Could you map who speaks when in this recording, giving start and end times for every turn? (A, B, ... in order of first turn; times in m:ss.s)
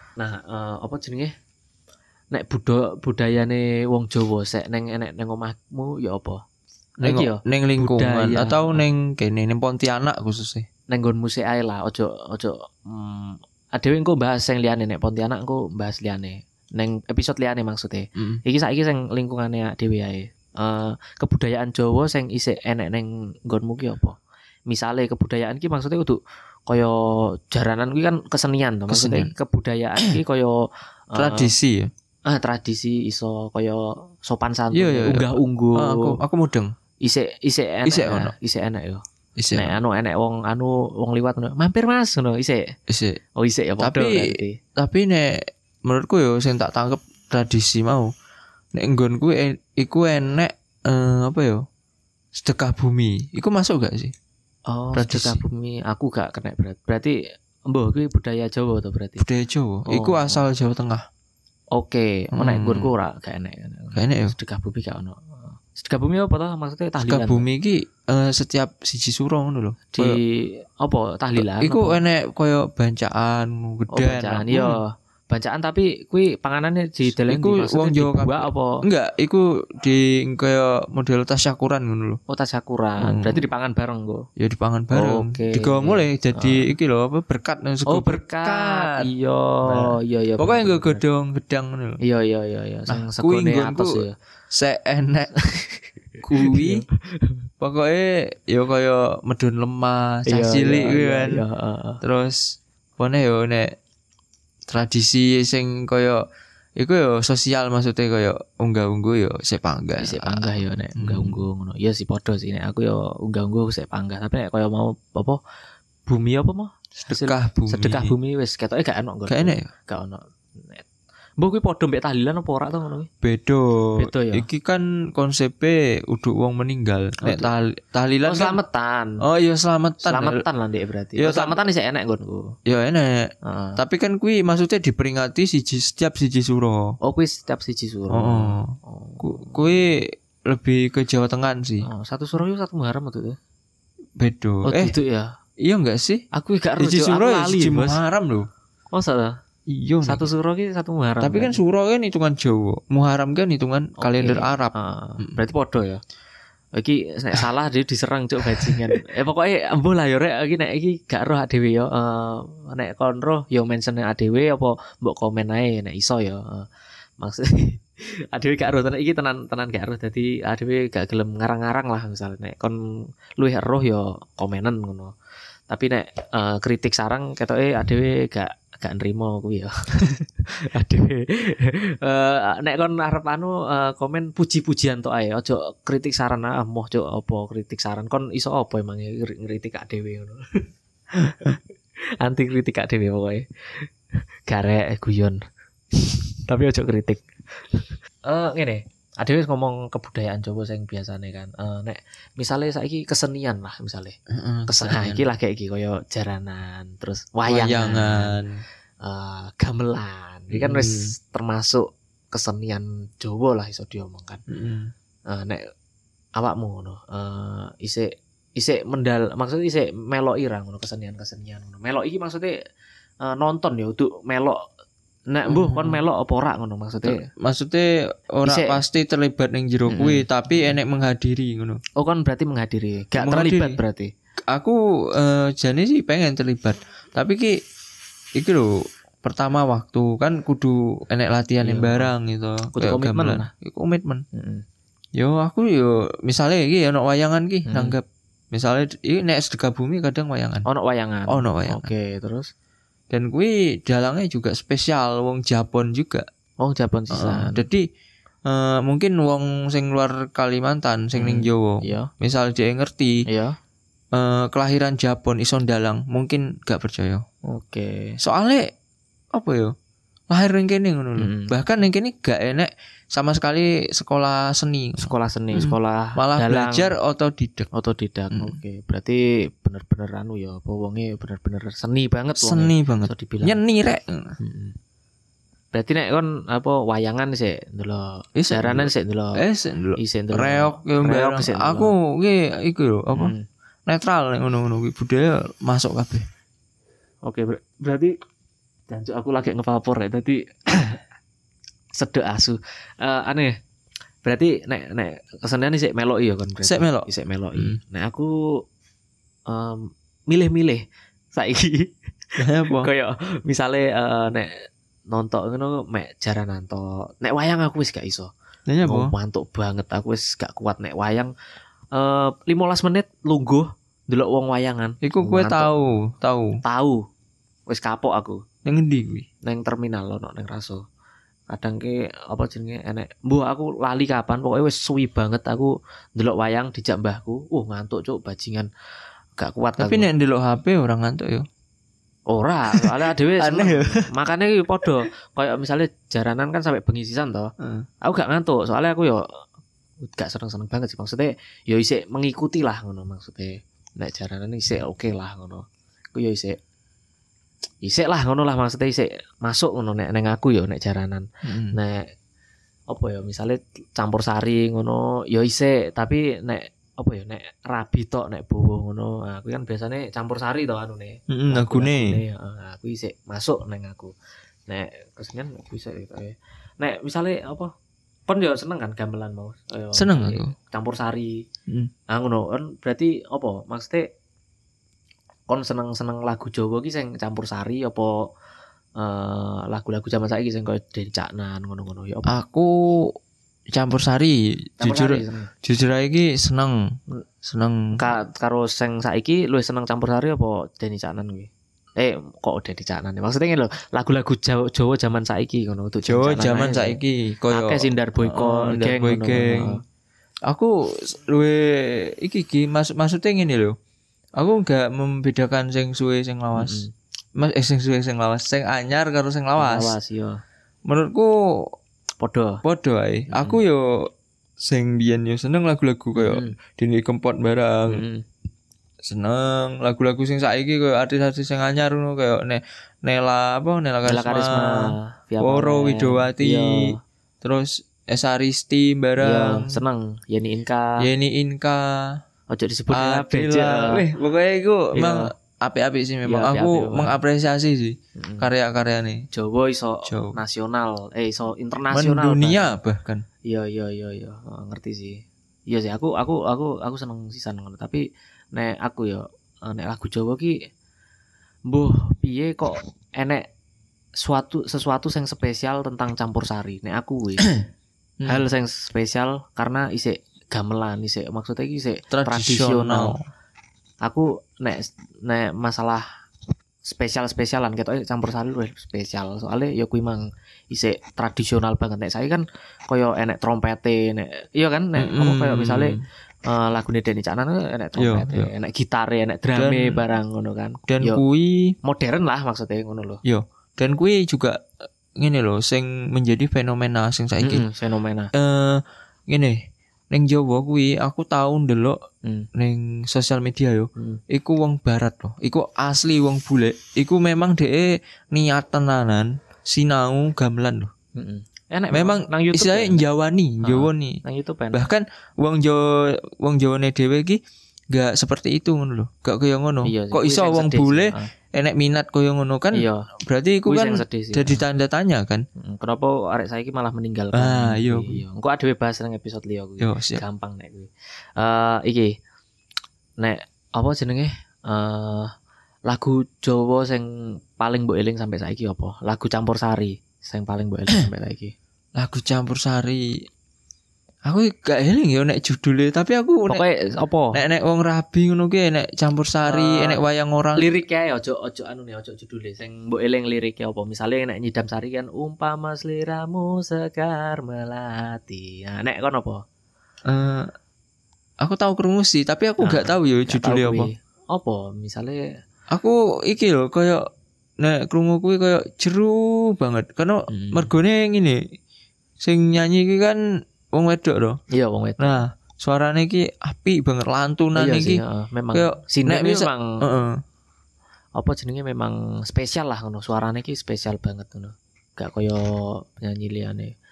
0:00.2-0:01.3 A
0:02.3-0:06.4 A
0:07.0-0:08.8 A
0:07.0-0:10.7 B
0:10.9-0:24.2 A
0:24.7-0:31.5 A
0:28.9-0:29.3 B
0:31.2-0:31.9 B
0:32.2-0:36.2 A
0:34.7-0:36.7 B
0:37.0-0:39.0 A
0:37.8-0:38.3 B
0:39.4-0:39.8 B
0:39.5-0:42.8 A
0:42.9-0:43.2 B
0:43.4-0:44.6 A
0:43.8-0:48.1 B
0:48.7-0:51.6 B
0:52.3-0:54.1 B
0:54.7-0:59.2 A
0:54.9-0:55.4 B
0:59.2-1:01.0 B
0:59.8-1:00.4 A
1:01.7-1:07.4 A
1:02.3-1:02.9 B
1:03.9-1:04.3 B
1:07.0-1:10.2 B
1:09.9-1:12.0 A
1:11.4-1:14.8 B
1:13.9-1:18.8 A
1:17.1-1:22.2 B
1:22.3-1:24.3 A
1:23.0-1:23.4 B
1:24.4-1:29.1 B
1:24.9-1:26.7 A
1:27.9-1:31.0 A
1:29.6-1:32.0 B
1:32.0-1:34.1 A
1:32.9-1:35.4 B
1:36.2-1:36.8 B
1:36.4-1:37.4 A
1:37.6-1:41.4 B
1:40.3-1:42.0 A
1:42.0-1:43.7 B
1:44.7-1:46.2 B
1:46.8-1:51.4 B
1:50.0-1:55.4 A
1:56.1-2:00.8 A
1:57.0-1:58.1 B
1:59.3-1:59.7 B
2:01.4-2:03.1 A
2:03.2-2:08.6 B
2:04.0-2:04.5 A
2:07.2-2:07.5 A
2:08.2-2:09.2 A
2:09.2-2:10.4 B
2:10.0-2:12.5 A
2:11.2-2:11.6 B
2:12.6-2:17.0 B
2:13.4-2:13.8 A
2:17.0-2:19.6 A
2:18.1-2:21.9 B
2:21.8-2:23.4 A
2:24.2-2:24.9 B
2:24.6-2:25.3 A
2:25.6-2:26.2 B
2:26.3-2:28.0 A
2:26.8-2:28.5 B
2:28.9-2:29.4 A
2:29.7-2:30.2 B
2:30.0-2:31.6 A
2:31.2-2:35.4 B
2:34.0-2:36.0 A
2:36.7-2:46.7 A
2:38.4-2:39.0 B
2:47.2-2:52.8 A
2:53.4-2:55.1 A
2:55.7-3:11.6 A
3:12.2-3:13.9 A
3:14.5-3:15.4 A
3:15.9-3:28.4 A
3:24.3-3:25.2 B
3:27.5-3:28.6 B
3:29.0-3:34.4 A
3:30.5-3:31.1 B
3:34.5-3:34.9 B
3:35.3-3:35.6 A
3:36.4-3:42.6 A
3:43.2-3:44.6 A
3:45.3-3:47.3 A
3:45.5-3:46.0 B
3:47.0-3:51.8 B
3:48.4-3:48.8 A
3:49.9-3:50.7 A
3:52.0-3:54.1 A
3:53.2-3:53.8 B
3:54.5-3:57.6 B
3:58.4-4:04.2 B
4:01.6-4:02.1 A
4:02.7-4:03.5 A
4:04.3-4:04.6 A
4:05.2-4:10.6 B
4:07.7-4:08.0 A
4:10.6-4:12.5 A
4:11.3-4:11.9 B
4:13.1-4:16.2 B
4:16.6-4:17.6 A
4:17.1-4:17.9 B
4:18.4-4:23.2 B
4:21.1-4:22.1 A
4:23.3-4:23.5 A
4:24.1-4:27.2 B
4:27.5-4:28.2 A
4:28.2-4:28.7 B
4:29.3-4:29.7 B
4:30.3-4:37.7 B
4:31.2-4:31.5 A
4:35.0-4:36.9 A
4:37.7-4:43.6 A
4:38.3-4:38.6 B
4:42.4-4:44.4 B
4:44.4-4:44.7 A
4:45.7-4:49.4 A
4:48.4-4:53.3 B
4:50.0-4:51.9 A
4:53.1-4:53.4 A
4:53.9-4:56.2 B
4:57.2-4:58.1 A
4:58.9-5:01.0 A
5:01.9-5:03.5 A
5:04.2-5:08.4 A
5:06.6-5:07.8 B
5:09.5-5:14.5 A
5:12.4-5:12.9 B
5:15.1-5:18.3 A
5:18.7-5:19.1 B
5:18.8-5:21.3 A
5:21.9-5:25.7 A
5:25.0-5:26.6 B
5:26.6-5:27.0 A
5:27.7-5:28.4 A
5:28.6-5:29.3 B
5:29.4-5:30.8 A
5:31.5-5:38.7 A
5:39.4-5:40.1 A
5:39.8-5:41.5 B
5:42.3-5:49.2 A
5:42.7-5:44.1 B
5:47.6-5:47.8 B
5:50.0-5:56.6 A
5:57.8-6:02.0 A
6:01.4-6:01.8 B
6:02.9-6:14.1 A
6:11.3-6:12.2 B
6:14.7-6:17.7 A
6:18.3-6:21.4 A
6:19.9-6:20.5 B
6:22.1-6:24.1 A
6:25.5-6:28.3 A
6:29.0-6:32.4 A
6:32.3-6:33.1 B
6:33.7-6:38.1 B
6:34.8-6:35.5 A
6:38.0-6:47.0 A
6:46.0-6:49.8 B
6:47.5-6:49.8 A
6:50.5-6:53.8 B
6:54.4-6:56.8 B
6:56.6-6:56.9 A
6:57.4-6:59.9 B
6:59.6-7:00.4 A
7:00.8-7:01.7 B
7:02.2-7:02.6 A
7:02.6-7:08.0 B
7:03.3-7:03.6 A
7:06.1-7:06.5 A
7:07.9-7:08.2 A
7:09.0-7:16.8 B
7:14.0-7:17.0 A
7:17.4-7:19.8 B
7:19.2-7:21.0 A
7:21.0-7:22.2 B
7:22.5-7:24.0 A
7:22.9-7:29.3 B
7:24.9-7:25.3 A
7:26.2-7:27.2 A
7:28.2-7:28.5 A
7:29.3-7:32.7 A
7:30.0-7:30.4 B
7:31.9-7:33.2 B
7:33.4-7:40.7 A
7:41.7-7:43.5 A
7:44.2-7:47.5 A
7:48.2-7:53.2 A
7:52.1-7:53.2 B
7:54.0-7:56.1 A
7:56.8-8:11.2 A
8:05.0-8:06.0 B
8:08.0-8:08.5 B
8:09.5-8:10.0 B
8:10.9-8:11.7 B
8:11.8-8:13.2 A
8:13.2-8:17.7 B
8:17.4-8:18.3 A
8:18.3-8:22.0 B
8:22.5-8:30.9 B
8:31.2-8:33.0 A
8:31.9-8:45.4 B
8:33.6-8:34.8 A
8:39.8-8:41.3 A
8:42.7-8:43.1 A
8:43.6-8:44.6 A
8:45.6-8:52.2 A
8:47.3-8:48.2 B
8:49.8-8:50.2 B
8:53.2-8:55.3 A
8:55.9-9:01.5 A
9:02.0-9:03.2 B
9:04.2-9:06.6 B
9:06.5-9:07.4 A
9:07.3-9:10.7 B
9:09.4-9:10.0 A
9:10.6-9:19.4 A
9:20.0-9:20.5 B
9:21.4-9:23.9 B
9:22.6-9:25.4 A
9:25.7-9:27.1 B
9:27.6-9:31.4 B
9:30.3-9:30.7 A
9:32.2-9:34.4 B
9:34.5-9:35.2 A
9:35.0-9:38.0 B
9:37.5-9:39.8 A
9:38.5-9:40.2 B
9:41.2-9:46.7 A